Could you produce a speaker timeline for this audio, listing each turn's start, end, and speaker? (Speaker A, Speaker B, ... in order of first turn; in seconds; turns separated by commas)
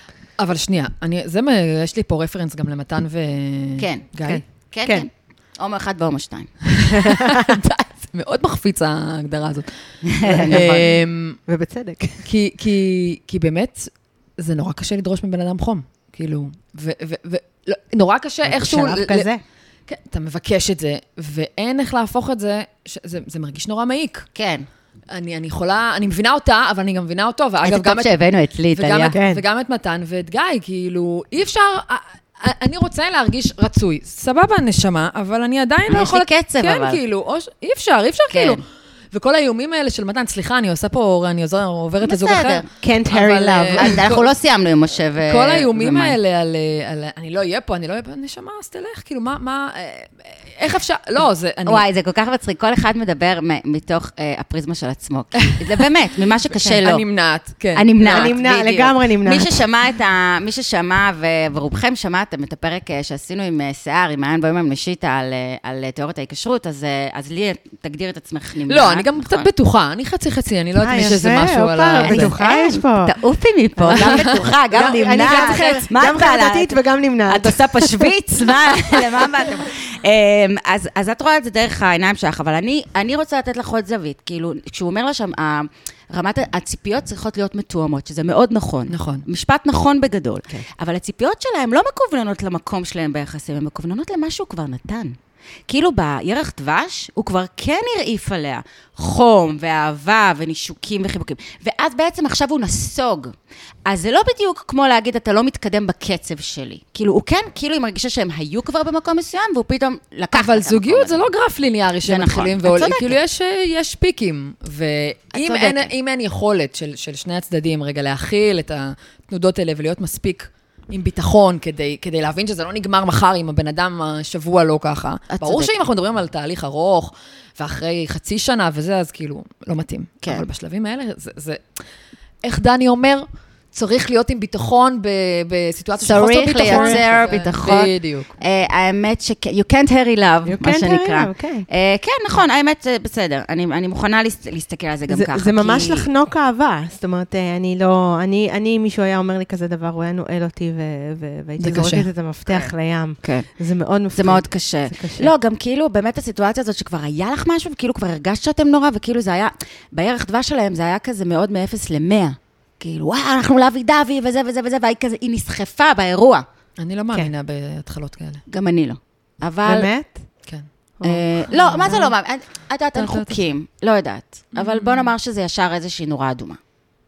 Speaker A: 0.4-4.4, Speaker B: 3.8-6.5, Speaker C: 4.2-5.1, Speaker A: 6.7-9.7, Speaker C: 6.9-7.6, Speaker B: 10.1-10.8, Speaker C: 10.2-12.2, Speaker A: 10.5-11.4, Speaker A: 12.2-19.3, Speaker C: 18.5-19.4, Speaker A: 19.9-24.3, Speaker B: 24.4-24.6, Speaker A: 25.1-28.1, Speaker B: 27.6-29.1, Speaker A: 28.8-38.6, Speaker C: 29.1-29.4, Speaker B: 35.9-37.0, Speaker B: 38.3-38.6, Speaker A: 39.1-44.3, Speaker B: 42.0-42.7, Speaker C: 42.8-44.0, Speaker B: 43.8-46.1, Speaker A: 45.2-51.8, Speaker B: 51.6-57.1, Speaker A: 55.4-55.8, Speaker A: 56.5-58.3, Speaker B: 57.8-69.5, Speaker C: 58.0-59.6, Speaker A: 68.7-72.3, Speaker C: 70.8-73.1, Speaker B: 72.0-95.1, Speaker C: 73.8-79.3, Speaker A: 73.9-74.4, Speaker A: 88.9-89.3, Speaker B: 95.7-103.3, Speaker B: 103.9-111.3, Speaker A: 110.3-131.6, Speaker B: 112.0-113.2, Speaker B: 115.4-115.9, Speaker B: 125.3-125.8, Speaker A: 132.4-138.3, Speaker B: 136.0-146.1, Speaker C: 136.6-137.1, Speaker C: 140.5-141.7, Speaker C: 145.1-155.3, Speaker A: 151.6-152.1, Speaker B: 154.1-166.4, Speaker A: 166.8-168.4, Speaker B: 168.5-169.9, Speaker C: 169.6-170.1, Speaker C: 171.0-172.1, Speaker B: 171.0-176.6, Speaker A: 171.8-172.1, Speaker A: 172.9-173.4, Speaker A: 174.6-175.1